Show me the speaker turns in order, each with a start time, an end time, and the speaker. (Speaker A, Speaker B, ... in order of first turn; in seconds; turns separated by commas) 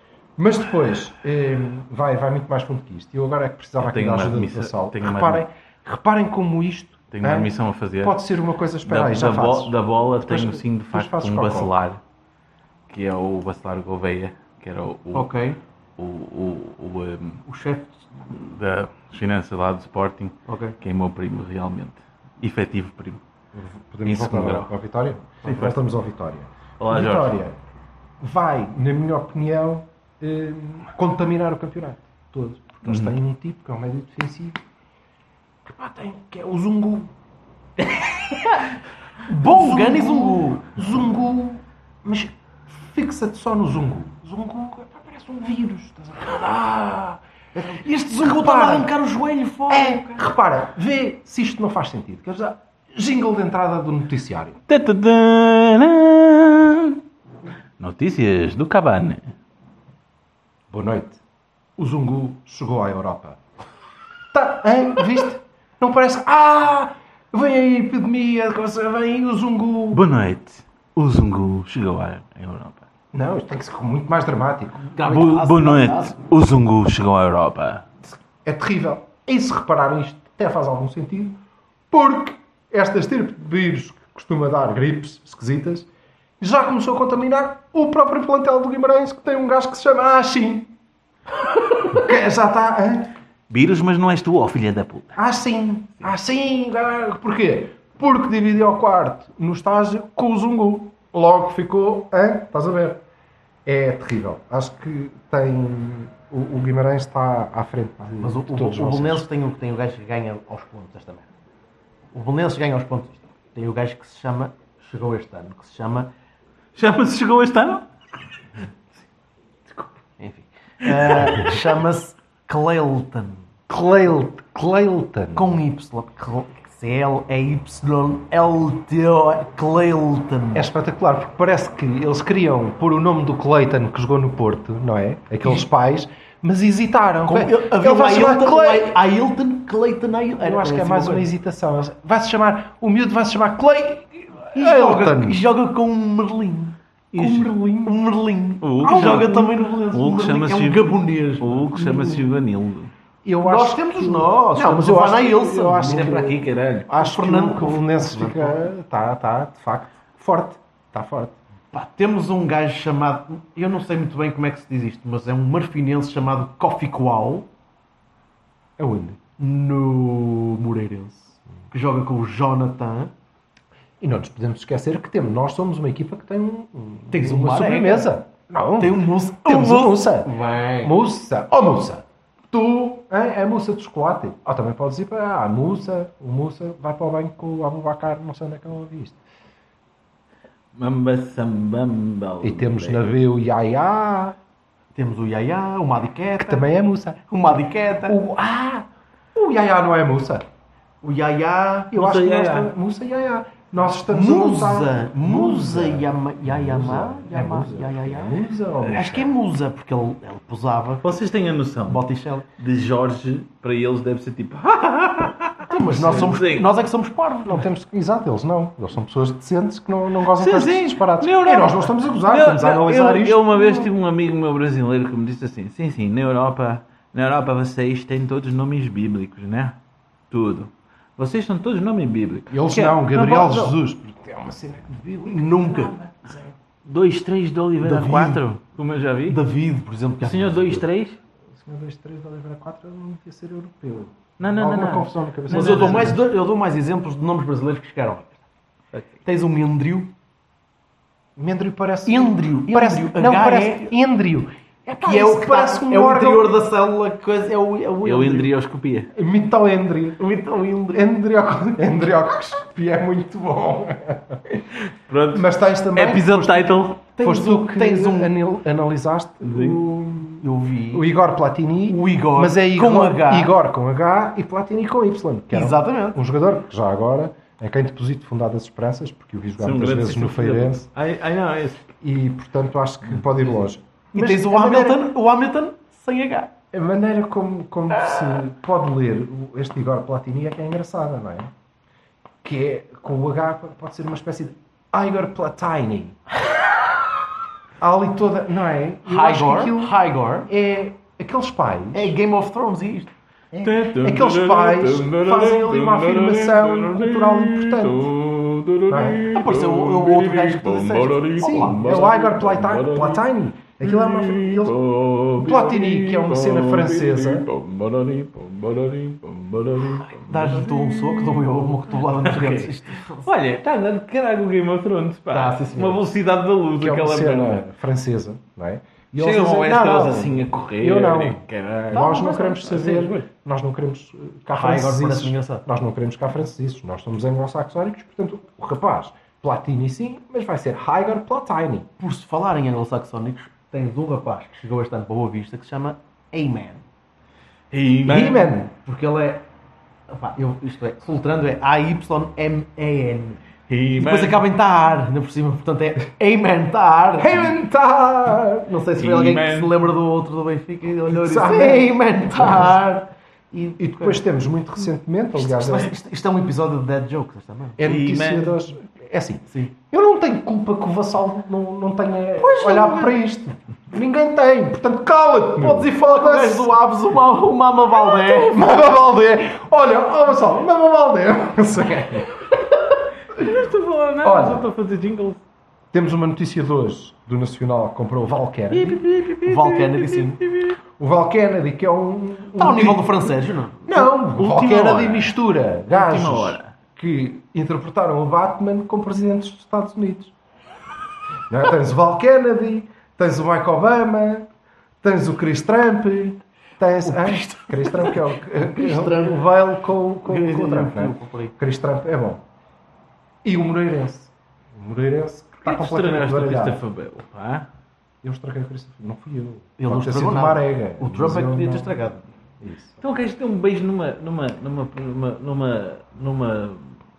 Speaker A: 0.4-11.7, Speaker B: 3.8-5.5, Speaker B: 7.1-8.2, Speaker B: 8.8-12.0, Speaker B: 12.9-15.4, Speaker C: 15.1-15.6, Speaker B: 16.0-17.4, Speaker C: 17.5-18.1, Speaker B: 18.3-23.2, Speaker C: 20.5-20.8, Speaker A: 23.6-27.6, Speaker B: 24.1-24.7, Speaker B: 25.4-25.8, Speaker B: 26.8-27.4, Speaker A: 28.2-34.6, Speaker B: 32.9-33.1, Speaker A: 35.7-37.1, Speaker B: 38.0-38.4, Speaker C: 39.2-40.7, Speaker A: 39.4-48.9, Speaker C: 47.7-50.2, Speaker A: 49.7-54.6, Speaker B: 54.7-57.0, Speaker B: 57.8-59.2, Speaker A: 60.7-61.2, Speaker A: 61.8-63.4, Speaker A: 64.3-70.1, Speaker B: 69.9-72.8, Speaker A: 73.1-74.8, Speaker C: 74.8-76.2, Speaker B: 75.0-77.9, Speaker A: 78.4-81.4, Speaker A: 81.9-85.9, Speaker A: 86.4-90.7, Speaker A: 91.9-93.1, Speaker B: 93.5-95.2, Speaker A: 95.2-103.0, Speaker A: 103.7-109.3, Speaker C: 108.2-111.3, Speaker C: 112.1-116.1, Speaker B: 116.8-117.8, Speaker C: 120.2-123.4, Speaker A: 123.7-125.6, Speaker C: 125.3-130.7, Speaker A: 130.6-139.0, Speaker C: 137.3-141.3, Speaker A: 140.4-145.4, Speaker C: 144.6-146.8, Speaker B: 147.1-147.5, Speaker A: 147.1-148.0, Speaker C: 147.8-151.8, Speaker B: 148.6-152.9, Speaker A: 148.8-149.6, Speaker A: 151.7-152.3, Speaker A: 153.2-161.4, Speaker C: 153.4-156.3, Speaker B: 155.9-156.9, Speaker C: 157.0-158.7, Speaker C: 161.7-167.5, Speaker A: 168.8-169.2, Speaker C: 169.4-173.1, Speaker A: 174.0-189.2, Speaker C: 177.1-178.1, Speaker C: 178.8-181.0, Speaker B: 190.7-193.0, Speaker A: 192.4-194.4, Speaker C: 194.9-196.7, Speaker A: 196.4-197.2, Speaker C: 197.3-198.2, Speaker A: 198.0-200.4, Speaker C: 201.0-201.9, Speaker B: 201.9-202.7, Speaker A: 201.9-209.3, Speaker C: 204.1-208.3, Speaker C: 208.9-211.2, Speaker B: 211.0-212.1, Speaker C: 211.9-212.5, Speaker B: 212.6-216.7, Speaker C: 215.7-217.6, Speaker A: 215.8-216.4, Speaker A: 217.4-223.7, Speaker B: 220.3-229.8, Speaker B: 230.3-233.8, Speaker A: 232.5-236.5, Speaker C: 235.3-236.0, Speaker B: 236.8-239.4, Speaker C: 237.8-238.4, Speaker C: 239.3-240.8, Speaker B: 240.2-241.2, Speaker A: 241.6-246.2, Speaker B: 244.4-246.2, Speaker C: 245.5-248.4, Speaker C: 249.2-250.2, Speaker A: 251.4-256.5, Speaker C: 252.1-253.9, Speaker C: 255.0-258.5, Speaker B: 258.0-259.1, Speaker A: 259.1-260.2, Speaker C: 260.2-261.1, Speaker A: 260.9-264.4, Speaker B: 265.1-267.0, Speaker A: 265.3-280.9, Speaker C: 267.2-268.4, Speaker B: 269.4-269.8, Speaker C: 270.4-271.1, Speaker C: 271.9-273.6, Speaker C: 275.5-276.2, Speaker B: 279.6-281.9, Speaker A: 282.0-285.0, Speaker C: 284.1-286.5, Speaker A: 286.7-291.5, Speaker A: 292.4-296.2, Speaker A: 297.8-299.9, Speaker C: 299.1-300.5, Speaker A: 300.5-302.2, Speaker C: 301.9-303.1, Speaker A: 303.5-308.1, Speaker B: 303.6-313.2, Speaker A: 308.9-309.3, Speaker C: 309.2-312.1, Speaker A: 311.4-314.8, Speaker B: 313.8-327.6, Speaker A: 315.4-317.5, Speaker C: 320.1-323.3, Speaker C: 325.3-326.1, Speaker A: 326.8-341.9, Speaker B: 329.1-332.1, Speaker C: 331.9-333.2, Speaker C: 334.5-335.6, Speaker C: 342.0-346.8, Speaker B: 347.7-348.6, Speaker A: 348.1-348.7, Speaker C: 348.8-349.5, Speaker C: 350.1-353.4, Speaker B: 353.7-354.5, Speaker C: 354.0-357.6, Speaker A: 357.2-358.7, Speaker C: 358.6-364.2, Speaker B: 359.0-359.8, Speaker A: 361.1-362.8, Speaker A: 363.8-365.9, Speaker C: 365.4-367.8, Speaker A: 367.8-376.7, Speaker B: 367.8-368.6, Speaker C: 372.4-373.2, Speaker C: 375.6-378.6, Speaker A: 378.0-382.4, Speaker B: 383.3-385.4, Speaker A: 384.2-384.7, Speaker A: 385.9-389.0, Speaker B: 388.7-390.8, Speaker C: 389.3-390.4, Speaker A: 391.0-393.2, Speaker C: 392.6-394.0, Speaker A: 393.9-400.3, Speaker B: 394.1-395.4, Speaker B: 395.9-396.7, Speaker A: 401.5-404.5, Speaker A: 405.0-412.4, Speaker C: 407.0-409.6, Speaker C: 410.2-411.5, Speaker A: 413.4-416.8, Speaker B: 415.6-417.7, Speaker A: 418.2-422.0, Speaker C: 419.8-422.2, Speaker A: 422.6-423.0, Speaker B: 423.0-426.9